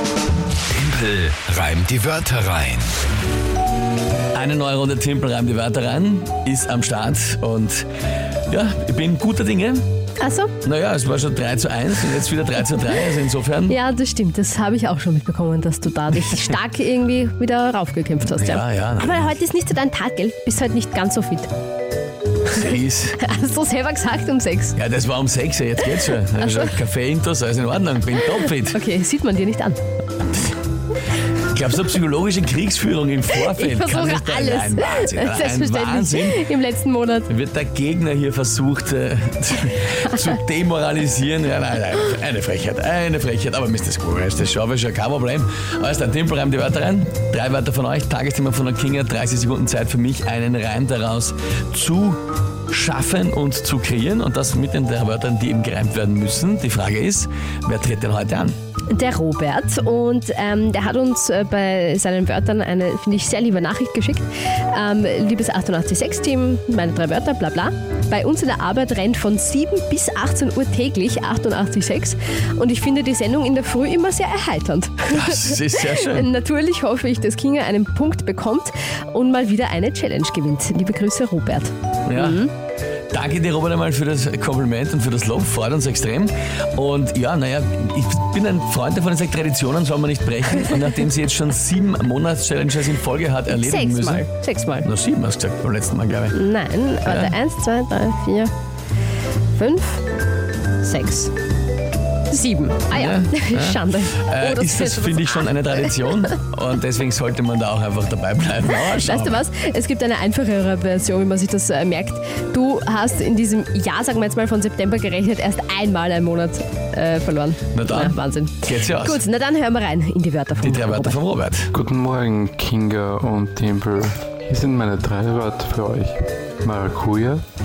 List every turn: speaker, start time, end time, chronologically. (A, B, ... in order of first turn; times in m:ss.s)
0:00.7-0:02.9 A
0:04.3-0:07.8 B
0:08.5-0:09.8 B
0:10.2-0:10.5 C
0:10.6-0:13.8 B
0:13.7-0:21.5 C
0:18.2-0:19.3 B
0:22.5-0:24.8 C
0:22.5-0:23.2 B
0:24.7-0:28.8 B
0:25.9-0:26.7 C
0:28.6-0:29.8 C
0:30.2-0:30.6 B
0:31.4-0:36.5 B
0:33.4-0:37.3 C
0:37.3-0:58.5 B
0:58.9-1:22.5 C
1:15.1-1:16.3 B
1:22.0-1:22.5 B
1:23.1-1:34.3 B
1:33.5-1:34.9 C
1:34.8-1:36.4 B
1:36.3-1:38.5 C
1:37.0-1:37.4 B
1:39.6-1:40.0 C
1:40.8-1:41.3 C
1:42.3-1:45.5 C
1:42.9-1:49.4 B
1:48.7-2:01.2 C
1:57.7-1:59.2 B
2:00.6-2:01.7 B
2:01.7-2:07.4 D